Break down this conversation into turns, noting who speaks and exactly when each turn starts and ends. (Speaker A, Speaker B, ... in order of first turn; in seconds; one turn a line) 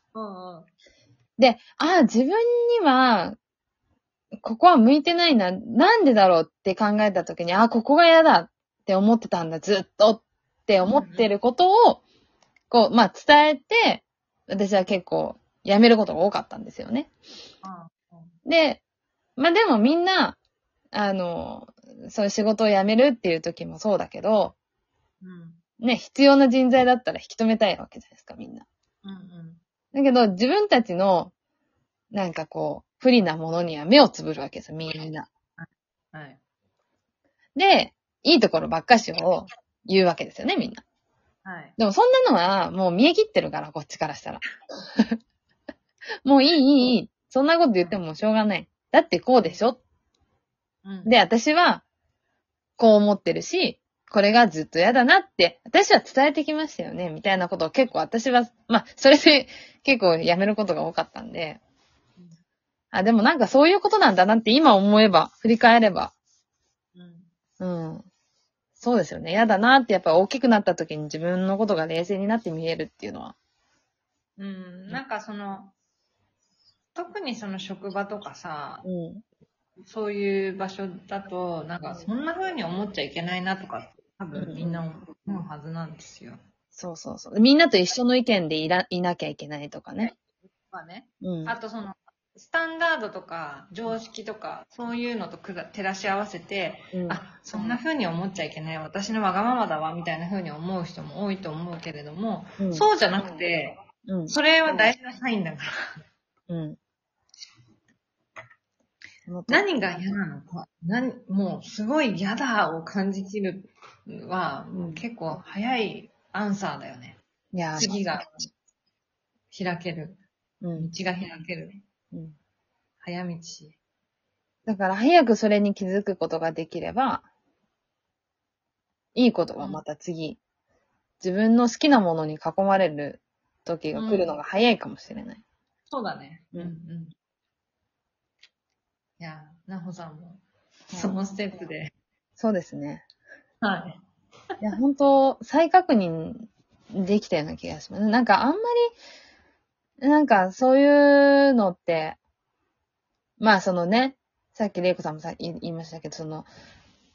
Speaker A: 0.1-0.7
Speaker B: 1.4-3.4
Speaker B: 4.4-12.0
Speaker A: 10.8-11.3
Speaker B: 12.7-17.1
Speaker A: 17.6-18.3
Speaker B: 18.4-18.8
Speaker B: 19.4-20.4
Speaker B: 20.9-24.5
Speaker A: 25.2-25.6
Speaker B: 25.8-28.6
Speaker A: 29.0-29.6
Speaker B: 29.9-31.3
Speaker B: 32.1-35.3
Speaker A: 35.6-36.4
Speaker B: 37.5-40.8
Speaker A: 41.4-41.8
Speaker B: 41.8-44.4
Speaker B: 46.2-49.8
Speaker A: 50.8-51.1
Speaker B: 51.0-51.8
Speaker B: 52.8-61.6
Speaker B: 62.9-66.1
Speaker A: 66.9-67.3
Speaker B: 67.6-68.0
Speaker B: 68.8-73.3
Speaker A: 74.4-75.7
Speaker A: 76.9-78.8
Speaker B: 78.8-79.2
Speaker A: 79.8-86.4
Speaker B: 84.3-84.8
Speaker B: 86.7-90.1
Speaker A: 90.7-105.7
Speaker B: 91.2-91.5
Speaker B: 96.9-97.8
Speaker B: 102.6-102.9
Speaker B: 104.0-104.9
Speaker B: 106.5-106.8
Speaker B: 109.2-109.6
Speaker A: 109.5-117.2
Speaker B: 114.8-115.0
Speaker B: 117.5-118.0
Speaker A: 117.7-118.5
Speaker A: 119.5-120.2
Speaker B: 120.6-120.9
Speaker A: 120.7-121.8
Speaker A: 123.0-123.8
Speaker B: 124.7-127.2
Speaker B: 129.1-130.4
Speaker B: 131.2-135.4
Speaker A: 133.9-134.3
Speaker A: 135.9-137.1
Speaker A: 139.2-141.9
Speaker B: 140.9-141.2
Speaker B: 142.4-143.0
Speaker A: 143.6-144.0
Speaker B: 144.6-148.9
Speaker B: 150.0-152.2
Speaker B: 153.4-156.5